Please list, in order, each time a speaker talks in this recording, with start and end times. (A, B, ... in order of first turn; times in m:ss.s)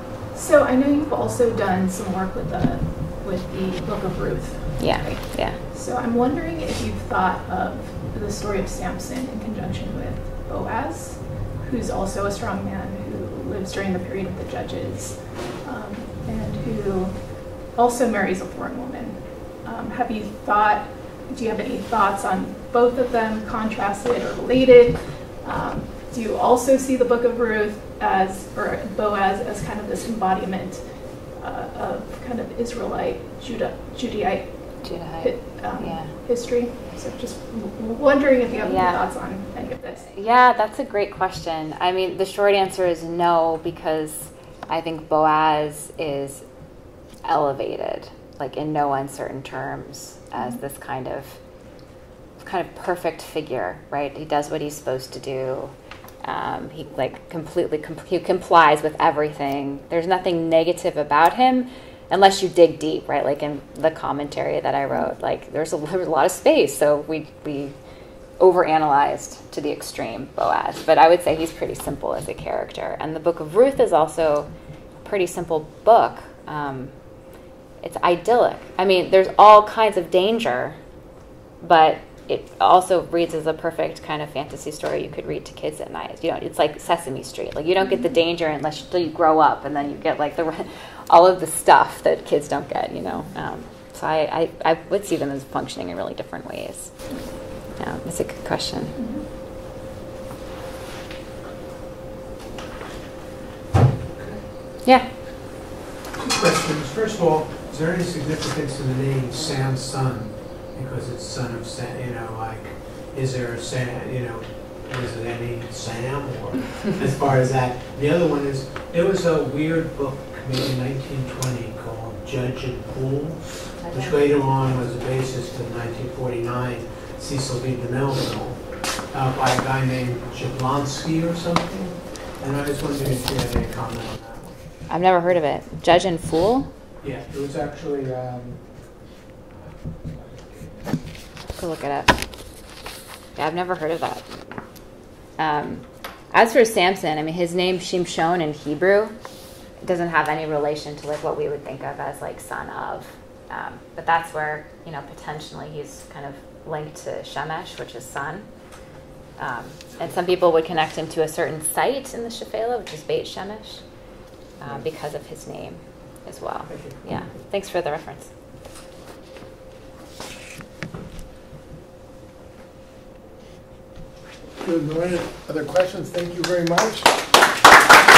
0:00.3-0:40.1 A
0:04.8-0:05.6 B
0:34.8-0:36.1 B
0:38.6-0:39.0 B
0:40.1-0:46.4 B
0:47.2-0:51.4 B
0:52.4-0:55.7 B
0:56.2-1:07.7 B
1:08.4-1:14.5 B
1:15.0-1:16.9 B
1:17.8-1:20.8 B
1:21.6-1:36.9 B
1:37.8-1:39.0 B
1:39.0-1:39.2 A
1:44.2-1:44.5 C
1:46.2-2:14.6 C
2:03.8-2:04.2 B
2:14.9-2:16.7 B
2:17.0-2:18.9 C
2:21.6-2:22.2 B
2:23.4-2:24.3 B
2:25.4-2:29.1 B
2:29.8-2:38.5 B
2:39.4-2:43.8 B
2:44.6-2:48.3 B
2:54.6-2:57.2 D